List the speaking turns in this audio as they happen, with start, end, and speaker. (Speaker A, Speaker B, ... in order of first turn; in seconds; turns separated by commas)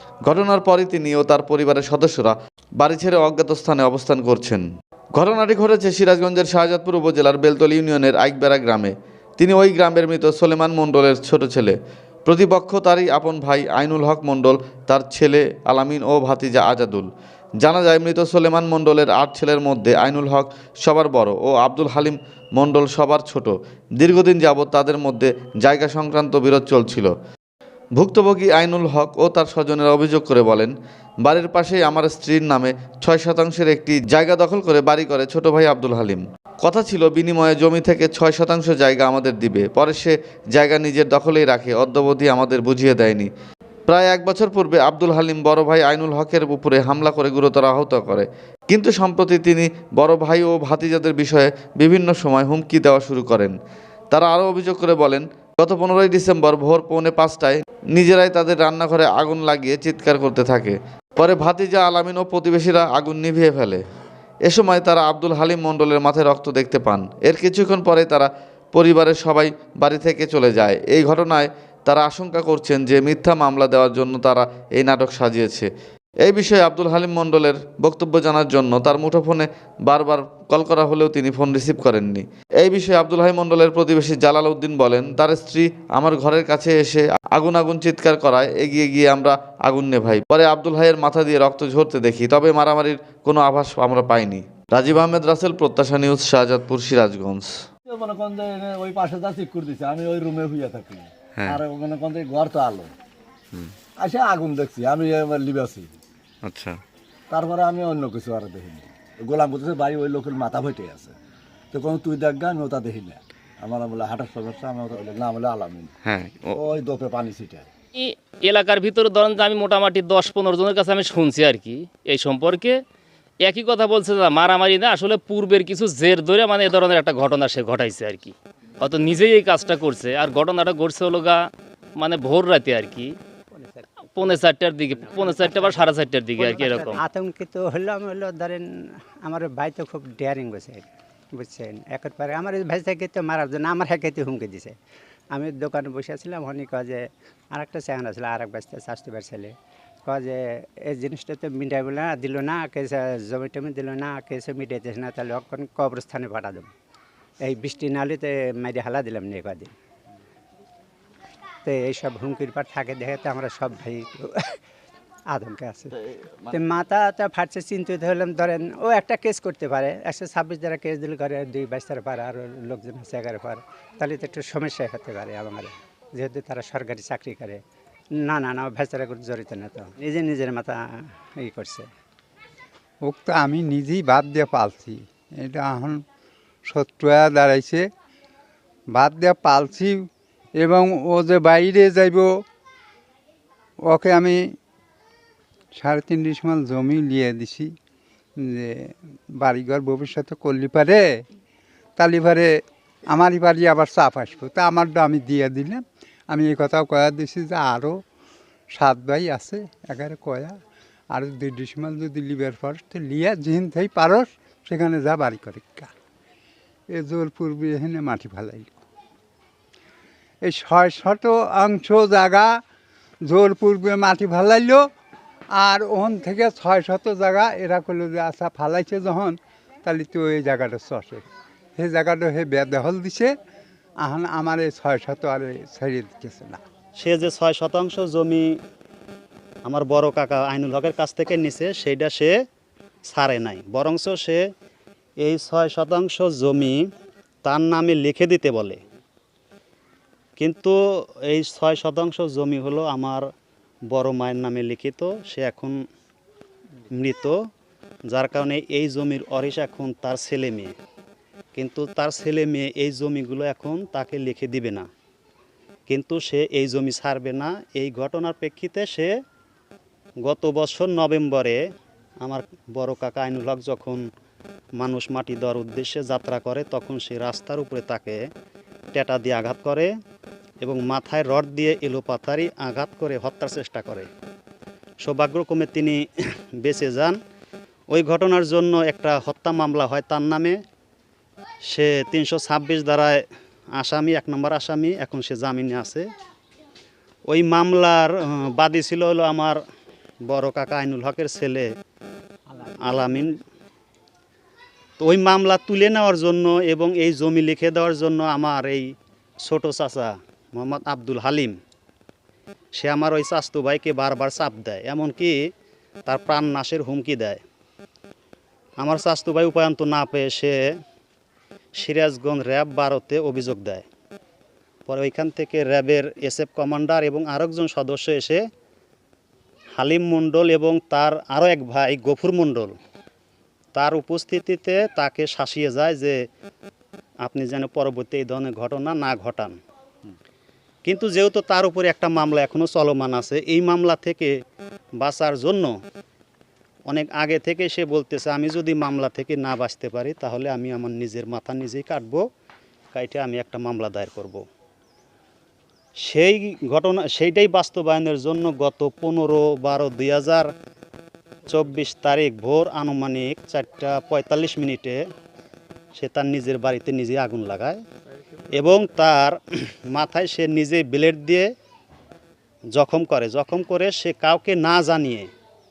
Speaker A: 0.3-4.6, Speaker A: 5.2-17.1, Speaker A: 17.6-27.1, Speaker A: 28.0-43.3, Speaker A: 43.9-53.5, Speaker A: 54.1-63.8, Speaker A: 64.5-75.7, Speaker A: 76.2-97.5, Speaker B: 97.9-102.9, Speaker A: 101.4-101.6, Speaker B: 104.0-105.9, Speaker A: 106.4-106.8, Speaker B: 107.3-111.2, Speaker B: 111.7-115.9, Speaker A: 116.0-116.6, Speaker B: 116.5-117.7, Speaker C: 117.9-122.8, Speaker C: 123.4-133.2, Speaker D: 133.6-134.3, Speaker C: 134.1-137.0, Speaker D: 135.0-138.7, Speaker D: 139.2-144.8, Speaker D: 145.3-149.5, Speaker D: 150.1-156.7, Speaker D: 157.4-159.7, Speaker D: 161.7-164.6, Speaker D: 165.3-165.9, Speaker D: 166.5-177.6, Speaker D: 178.2-180.8, Speaker D: 181.4-181.9, Speaker E: 183.1-186.0, Speaker E: 186.7-187.8, Speaker E: 188.9-190.0, Speaker E: 190.6-192.3, Speaker E: 193.9-194.4, Speaker E: 195.8-197.7, Speaker E: 198.4-201.0, Speaker E: 202.0-202.5, Speaker E: 203.1-208.0, Speaker E: 208.8-210.6, Speaker E: 211.1-215.9, Speaker E: 216.9-218.7, Speaker E: 220.4-222.6, Speaker E: 223.3-224.9, Speaker E: 225.6-231.2, Speaker E: 231.8-233.3, Speaker E: 234.0-236.6, Speaker F: 237.0-238.6, Speaker F: 239.7-242.3, Speaker F: 243.1-244.4, Speaker F: 245.2-246.9, Speaker F: 247.4-248.8, Speaker F: 250.4-250.8, Speaker F: 251.3-253.2, Speaker F: 253.9-255.8, Speaker F: 256.9-257.4, Speaker F: 258.1-260.7, Speaker F: 261.6-264.9, Speaker F: 265.9-269.1, Speaker F: 270.2-271.6, Speaker F: 272.2-274.0, Speaker F: 274.8-278.2, Speaker F: 278.9-279.9, Speaker F: 280.6-284.1, Speaker F: 285.0-286.0, Speaker F: 286.6-287.2, Speaker F: 287.9-290.6, Speaker F: 291.7-293.2, Speaker F: 293.8-296.1, Speaker F: 297.3-299.6, Speaker F: 300.3-301.7, Speaker F: 302.8-303.4, Speaker F: 305.0-308.9, Speaker F: 309.4-311.6, Speaker F: 312.8-315.4, Speaker F: 316.1-317.4, Speaker F: 318.8-320.6, Speaker F: 321.8-323.8, Speaker F: 324.9-328.4, Speaker F: 329.8-332.8, Speaker F: 333.8-336.2, Speaker F: 337.2-339.6, Speaker F: 340.9-344.3, Speaker F: 345.0-345.8, Speaker F: 346.9-352.2, Speaker F: 352.9-354.4, Speaker F: 356.0-360.5, Speaker F: 361.5-365.0, Speaker F: 365.9-367.8, Speaker F: 368.5-371.5, Speaker F: 372.7-375.3